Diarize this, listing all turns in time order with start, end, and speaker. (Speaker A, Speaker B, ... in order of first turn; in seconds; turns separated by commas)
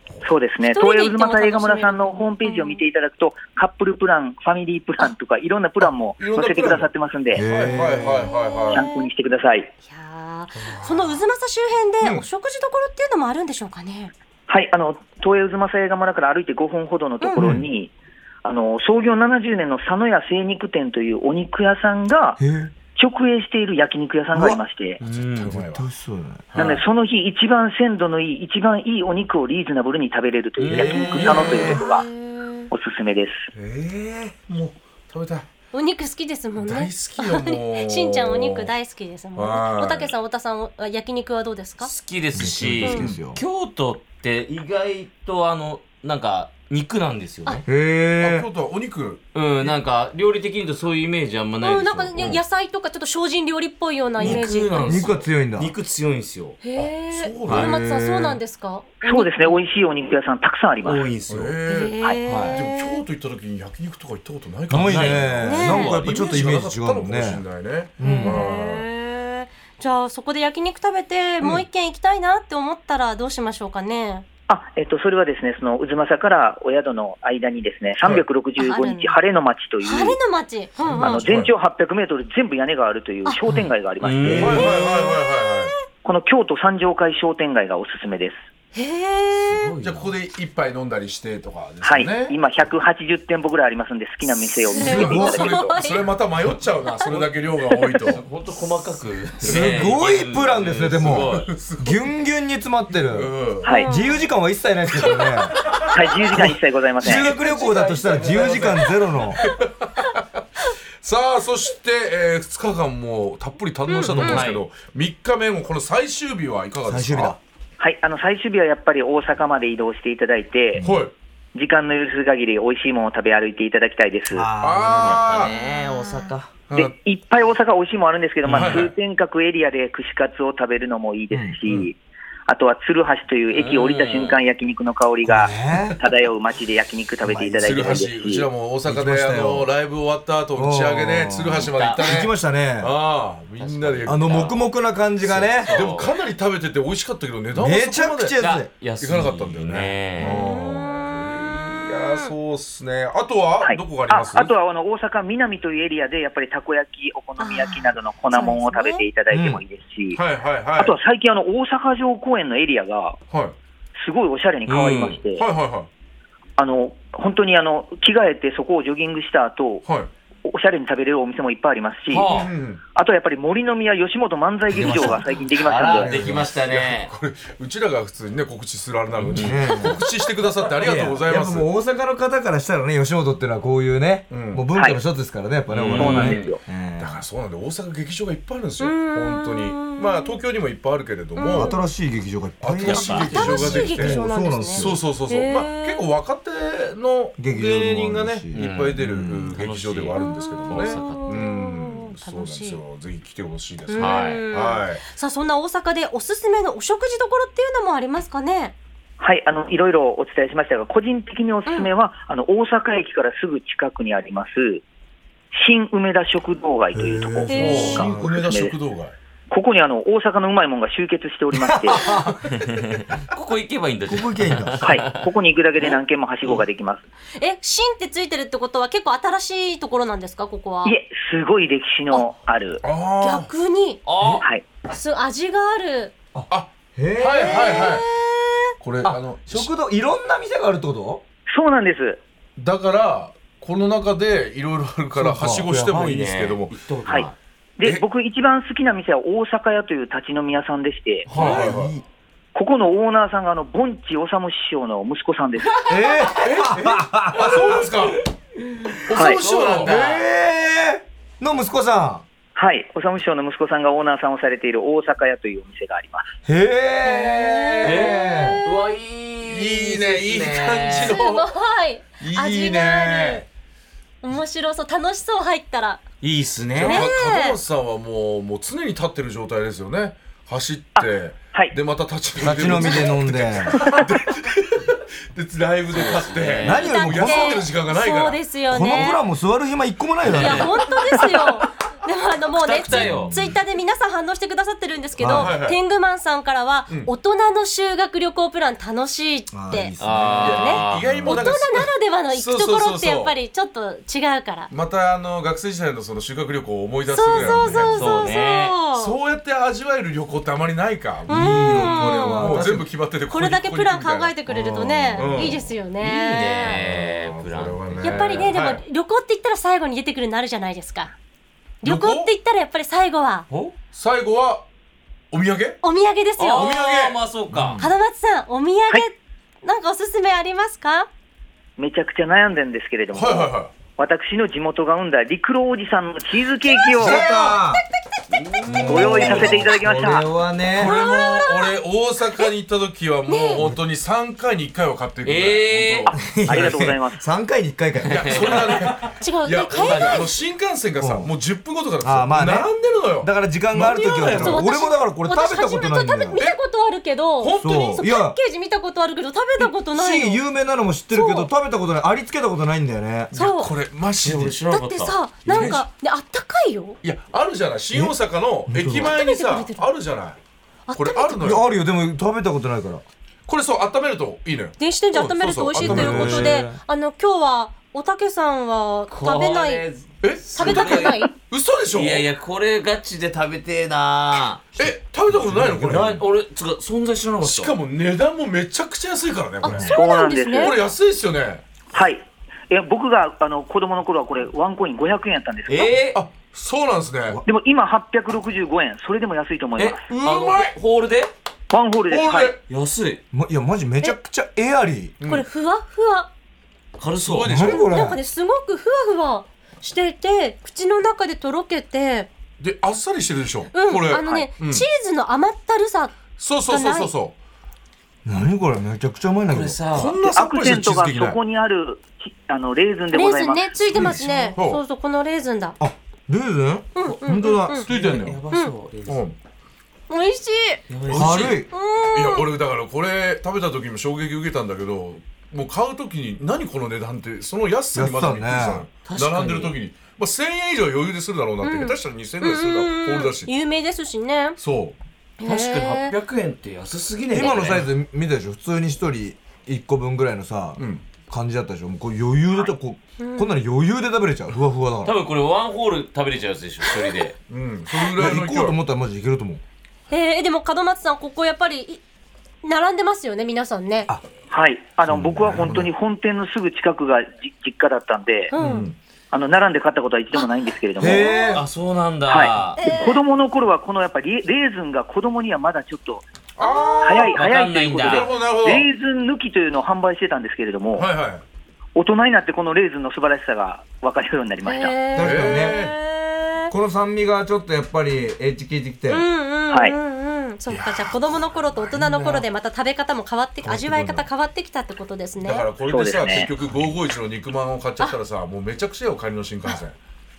Speaker A: 0.2-7.4, Speaker B: 0.7-2.8, Speaker C: 6.2-8.8, Speaker D: 7.3-8.3, Speaker B: 8.3-9.1, Speaker A: 8.7-9.7, Speaker B: 9.9-14.1, Speaker C: 10.6-11.2, Speaker A: 14.5-17.9, Speaker D: 17.4-17.6, Speaker A: 18.4-22.4, Speaker D: 22.4-22.7, Speaker A: 22.9-25.0, Speaker D: 24.3-24.6, Speaker E: 25.0-25.6, Speaker C: 25.0-25.9, Speaker D: 25.5-26.5, Speaker C: 26.5-26.8, Speaker A: 26.5-32.0, Speaker E: 30.6-31.6, Speaker C: 30.7-31.8, Speaker B: 31.2-32.7, Speaker A: 32.7-33.5, Speaker C: 33.5-35.5, Speaker B: 35.7-41.9, Speaker C: 36.6-38.7, Speaker C: 39.3-40.1, Speaker E: 41.8-47.6, Speaker D: 42.3-43.4, Speaker C: 42.8-43.2, Speaker D: 47.6-48.5, Speaker C: 48.2-49.7, Speaker E: 49.3-52.4, Speaker B: 51.6-54.9, Speaker E: 54.2-56.6, Speaker D: 54.2-55.7, Speaker B: 56.6-59.6, Speaker C: 56.8-57.8, Speaker E: 57.5-57.7, Speaker D: 57.5-58.4, Speaker A: 59.0-61.0, Speaker E: 60.8-61.6, Speaker C: 61.3-62.0, Speaker B: 61.7-63.0, Speaker E: 62.3-62.6, Speaker C: 62.5-68.8, Speaker D: 64.7-67.4, Speaker E: 64.7-66.0, Speaker B: 65.5-65.9, Speaker D: 68.0-68.4, Speaker B: 68.0-74.2, Speaker A: 74.5-80.2, Speaker B: 78.6-79.2, Speaker B: 79.8-81.3, Speaker C: 80.8-81.5, Speaker A: 81.0-84.7, Speaker E: 84.0-84.8, Speaker C: 84.4-85.7, Speaker B: 84.8-85.5, Speaker A: 86.0-88.4, Speaker B: 88.7-89.5, Speaker E: 89.3-90.1, Speaker C: 89.8-92.4, Speaker A: 91.8-95.8, Speaker B: 94.7-96.0, Speaker C: 94.8-98.2, Speaker D: 94.9-95.3, Speaker E: 96.9-97.3, Speaker E: 98.1-101.5, Speaker D: 99.4-103.3, Speaker C: 99.5-99.9, Speaker C: 100.9-102.1, Speaker C: 103.0-103.7, Speaker A: 103.6-103.9, Speaker B: 103.8-104.2, Speaker D: 103.9-105.6, Speaker C: 105.0-106.0, Speaker A: 105.9-107.3, Speaker D: 106.3-109.4, Speaker E: 107.1-109.1, Speaker C: 109.4-110.4, Speaker C: 111.0-117.4, Speaker B: 113.9-114.5, Speaker E: 114.2-114.6, Speaker D: 116.8-117.4, Speaker A: 117.8-120.8, Speaker C: 120.8-121.1, Speaker A: 121.5-124.5, Speaker D: 124.3-125.3, Speaker C: 124.6-125.6, Speaker E: 125.0-126.5, Speaker B: 125.8-126.3, Speaker A: 126.7-132.0, Speaker D: 128.5-128.9, Speaker C: 128.5-128.9, Speaker D: 131.3-131.6, Speaker A: 132.5-138.5, Speaker E: 133.5-134.4, Speaker D: 135.2-136.0, Speaker D: 137.2-138.1, Speaker C: 137.6-144.5, Speaker D: 138.8-139.7, Speaker D: 140.5-142.9, Speaker E: 141.6-142.1, Speaker E: 143.6-144.7, Speaker D: 144.1-145.9, Speaker E: 145.2-146.2, Speaker C: 145.7-148.4, Speaker D: 147.5-148.7, Speaker E: 148.4-150.4, Speaker C: 149.0-154.5, Speaker D: 150.2-150.4, Speaker B: 150.2-152.3, Speaker A: 153.6-160.2, Speaker B: 157.4-159.0, Speaker D: 159.3-159.6, Speaker C: 160.1-161.0, Speaker A: 160.8-163.2, Speaker C: 163.3-163.6, Speaker A: 164.0-165.4, Speaker E: 164.7-165.2, Speaker C: 165.4-165.9, Speaker A: 166.6-169.8, Speaker A: 170.4-176.1, Speaker E: 172.1-172.5, Speaker C: 172.3-172.8, Speaker D: 174.7-176.5, Speaker E: 174.8-177.1, Speaker C: 176.1-181.7, Speaker E: 179.2-179.7, Speaker D: 179.3-180.0, Speaker D: 180.8-187.2, Speaker C: 184.3-184.6, Speaker E: 185.7-186.5, Speaker A: 186.0-186.6, Speaker C: 187.0-191.8, Speaker B: 188.8-190.4, Speaker D: 191.5-195.0, Speaker C: 192.6-205.0, Speaker E: 192.8-193.3, Speaker B: 193.3-196.0, Speaker D: 197.4-199.6, Speaker E: 198.5-201.5, Speaker B: 200.2-202.8, Speaker B: 203.9-208.7, Speaker E: 203.9-204.4, Speaker A: 209.2-214.8, Speaker A: 215.5-218.8, Speaker D: 216.9-218.3, Speaker C: 217.5-219.1, Speaker B: 217.5-218.0, Speaker A: 219.5-222.1, Speaker D: 221.5-222.9, Speaker E: 222.5-225.3, Speaker D: 224.1-224.9, Speaker A: 224.8-227.0, Speaker B: 227.4-230.9, Speaker A: 230.8-232.8, Speaker C: 232.8-233.5, Speaker B: 233.2-234.0, Speaker E: 234.0-234.4, Speaker B: 234.9-236.1, Speaker D: 236.3-238.0, Speaker C: 236.5-238.1, Speaker C: 238.8-239.7, Speaker D: 239.0-241.2, Speaker A: 241.5-242.2, Speaker C: 242.6-246.7, Speaker D: 245.2-245.7, Speaker E: 245.4-247.3, Speaker A: 247.1-251.3, Speaker E: 251.3-251.8, Speaker D: 251.3-252.0, Speaker C: 251.3-251.9, Speaker A: 252.5-255.8, Speaker D: 255.8-258.2, Speaker C: 256.3-258.2, Speaker C: 259.0-260.1, Speaker A: 259.1-259.4, Speaker E: 259.1-260.2, Speaker D: 259.8-262.2, Speaker A: 262.6-266.3, Speaker D: 266.4-268.6, Speaker B: 267.2-268.3, Speaker E: 267.8-271.2, Speaker C: 269.5-271.5, Speaker B: 271.1-273.4, Speaker C: 272.2-273.4, Speaker F: 272.5-273.2, Speaker B: 274.2-276.0, Speaker E: 276.2-277.1, Speaker C: 276.7-288.4, Speaker B: 276.9-277.5, Speaker A: 280.9-281.7, Speaker D: 282.4-283.9, Speaker E: 285.9-287.0, Speaker D: 286.6-287.7, Speaker B: 286.9-289.2, Speaker D: 288.7-290.8, Speaker E: 290.2-290.9, Speaker B: 290.4-299.9, Speaker E: 292.6-293.3, Speaker D: 292.9-293.6, Speaker D: 295.2-295.6, Speaker C: 295.3-295.8, Speaker D: 299.5-300.6, Speaker E: 300.0-301.5, Speaker C: 300.4-303.3, Speaker B: 300.4-304.7, Speaker C: 304.7-308.1, Speaker B: 307.1-309.1, Speaker F: 307.4-307.8, Speaker E: 307.9-308.8, Speaker C: 308.9-314.4, Speaker D: 311.3-312.9, Speaker B: 311.4-312.7, Speaker B: 313.3-316.8, Speaker D: 314.9-315.4, Speaker C: 315.1-315.7, Speaker E: 316.0-318.5, Speaker C: 316.8-318.8, Speaker B: 318.0-321.1, Speaker B: 321.8-323.5, Speaker C: 321.8-322.3, Speaker E: 323.5-323.7, Speaker C: 323.9-324.6, Speaker C: 325.3-325.8, Speaker B: 325.8-326.8, Speaker E: 326.4-327.8, Speaker C: 326.6-327.9, Speaker B: 327.8-331.1, Speaker A: 331.8-337.2, Speaker C: 333.1-333.7, Speaker B: 336.8-337.5, Speaker D: 336.9-337.8, Speaker E: 338.3-339.6, Speaker B: 338.6-339.0, Speaker D: 338.7-340.9, Speaker A: 338.8-340.3, Speaker C: 340.7-346.2, Speaker B: 340.8-341.7, Speaker B: 343.3-343.6, Speaker E: 345.2-346.1, Speaker A: 346.1-347.2, Speaker D: 346.1-348.7, Speaker E: 348.0-349.1, Speaker C: 348.1-354.9, Speaker B: 349.2-350.0, Speaker F: 349.4-350.1, Speaker E: 349.8-350.3, Speaker D: 351.0-351.3, Speaker D: 352.0-356.4, Speaker F: 354.4-357.5, Speaker B: 355.2-357.5, Speaker C: 357.4-357.9, Speaker D: 357.5-358.4, Speaker B: 358.0-360.4, Speaker F: 358.0-358.9, Speaker F: 359.5-360.3, Speaker D: 359.6-363.3, Speaker F: 361.1-361.4, Speaker C: 363.3-364.6, Speaker F: 363.4-363.7, Speaker E: 364.2-365.8, Speaker B: 364.7-367.0, Speaker F: 364.8-366.5, Speaker C: 365.5-365.9, Speaker C: 367.0-370.4, Speaker D: 368.7-369.2, Speaker F: 369.2-369.8, Speaker B: 369.3-369.6, Speaker F: 370.9-371.4, Speaker C: 370.9-371.6, Speaker D: 371.4-373.0, Speaker C: 373.5-376.6, Speaker B: 374.8-379.8, Speaker F: 374.8-379.8, Speaker D: 375.8-376.8, Speaker E: 379.1-381.3, Speaker C: 380.2-382.2, Speaker B: 380.6-381.2, Speaker F: 380.6-381.3, Speaker E: 381.9-384.7, Speaker C: 384.8-386.2, Speaker D: 385.4-386.0, Speaker E: 385.6-387.7, Speaker C: 387.4-390.0, Speaker F: 389.6-390.7, Speaker A: 389.9-390.8, Speaker B: 389.9-390.6, Speaker C: 390.5-391.6, Speaker A: 391.9-395.9, Speaker E: 395.7-396.2, Speaker C: 396.1-397.4, Speaker A: 397.4-400.1, Speaker E: 399.8-401.3, Speaker D: 400.2-400.6, Speaker A: 401.7-402.5, Speaker C: 402.1-402.6, Speaker E: 402.7-403.2, Speaker D: 403.3-405.2, Speaker C: 405.2-405.5, Speaker F: 405.3-406.3, Speaker B: 405.5-406.3, Speaker E: 407.0-407.7, Speaker C: 407.2-408.0, Speaker D: 407.4-408.2, Speaker F: 407.8-409.2, Speaker B: 407.9-412.3, Speaker F: 409.9-412.3, Speaker C: 412.6-414.8, Speaker B: 413.8-416.1, Speaker F: 413.8-416.1, Speaker C: 416.3-417.3, Speaker B: 416.7-417.1, Speaker F: 416.7-417.1, Speaker D: 418.2-419.8, Speaker E: 419.5-420.2, Speaker C: 419.9-421.4, Speaker A: 420.2-423.7, Speaker B: 423.1-425.8, Speaker F: 423.7-425.7, Speaker C: 423.9-424.8, Speaker D: 425.8-427.9, Speaker F: 426.9-427.9, Speaker B: 427.1-427.8, Speaker C: 427.8-428.4, Speaker E: 427.9-429.2, Speaker C: 429.1-429.4, Speaker F: 430.1-430.8, Speaker B: 430.1-430.8, Speaker E: 430.9-431.6, Speaker D: 431.1-431.7, Speaker C: 431.1-443.5, Speaker F: 431.7-432.4, Speaker B: 431.7-432.4, Speaker D: 437.9-438.9, Speaker E: 439.0-439.8, Speaker F: 441.6-444.6, Speaker B: 442.5-444.6, Speaker C: 444.6-444.9, Speaker F: 445.4-446.1, Speaker E: 445.4-447.8, Speaker B: 445.4-446.1, Speaker D: 447.3-455.2, Speaker C: 450.8-451.1, Speaker E: 455.0-457.4, Speaker C: 457.5-458.8, Speaker D: 458.1-459.6, Speaker B: 460.1-462.0, Speaker F: 460.1-462.0, Speaker B: 462.6-464.1, Speaker F: 462.8-464.0, Speaker A: 464.5-468.5, Speaker C: 465.1-465.8, Speaker D: 465.5-465.8, Speaker C: 468.6-468.9, Speaker A: 469.3-471.5, Speaker D: 471.0-471.6, Speaker E: 471.5-472.8, Speaker A: 472.3-476.2, Speaker B: 472.8-473.2, Speaker C: 476.6-477.4, Speaker F: 476.6-477.1, Speaker B: 476.6-477.3, Speaker A: 477.0-481.1, Speaker E: 477.3-478.3, Speaker C: 478.0-478.9, Speaker C: 480.9-481.4, Speaker A: 481.9-484.9, Speaker B: 484.7-485.8, Speaker F: 484.7-486.7, Speaker D: 485.1-485.8, Speaker C: 485.2-485.9, Speaker D: 486.7-489.2, Speaker F: 489.1-489.8, Speaker B: 489.2-495.5, Speaker A: 489.7-490.0, Speaker F: 490.6-493.0, Speaker C: 490.7-492.2, Speaker F: 493.5-495.7, Speaker C: 493.7-494.1, Speaker C: 495.4-499.9, Speaker A: 495.9-496.5